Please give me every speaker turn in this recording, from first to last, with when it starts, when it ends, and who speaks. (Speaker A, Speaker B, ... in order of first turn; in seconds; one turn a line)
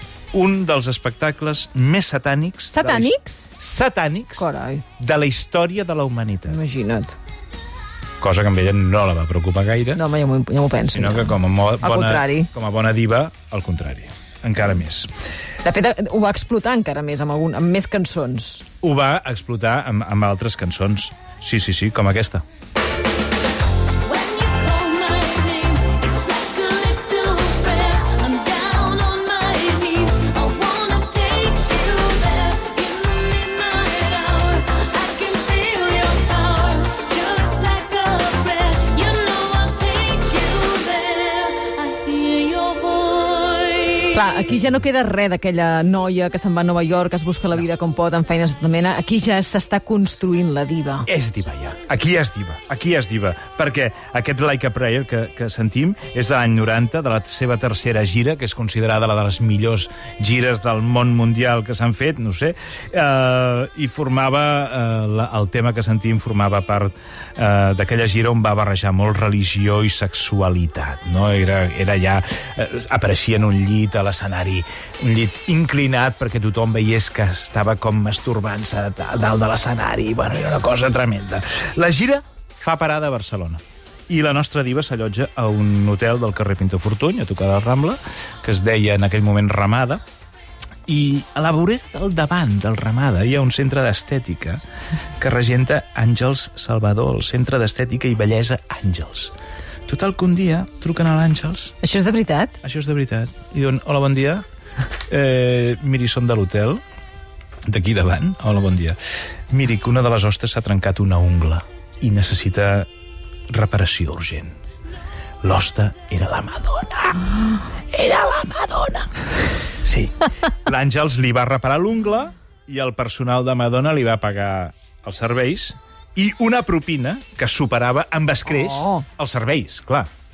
Speaker A: 0.3-6.6
Speaker B: 2.7-3.5
Speaker B: 4.4-4.8
Speaker B: 6.5-7.2
Speaker A: 8.2-10.0
Speaker B: 9.9-12.5
Speaker A: 10.9-15.1
Speaker B: 15.6-18.6
Speaker A: 18.8-22.4
Speaker C: 24.0-44.2
Speaker B: 44.1-51.1
Speaker A: 51.0-90.0
Speaker A: 90.9-94.6
Speaker A: 95.2-99.3
Speaker A: 99.9-101.7
Speaker B: 101.8-102.6
Speaker A: 102.6-104.4
Speaker A: 105.1-106.8
Speaker A: 107.7-109.0
Speaker A: 109.5-112.9
Speaker A: 113.5-114.5
Speaker A: 115.4-117.3
Speaker A: 117.9-119.2
Speaker A: 119.8-130.1
Speaker B: 128.5-129.1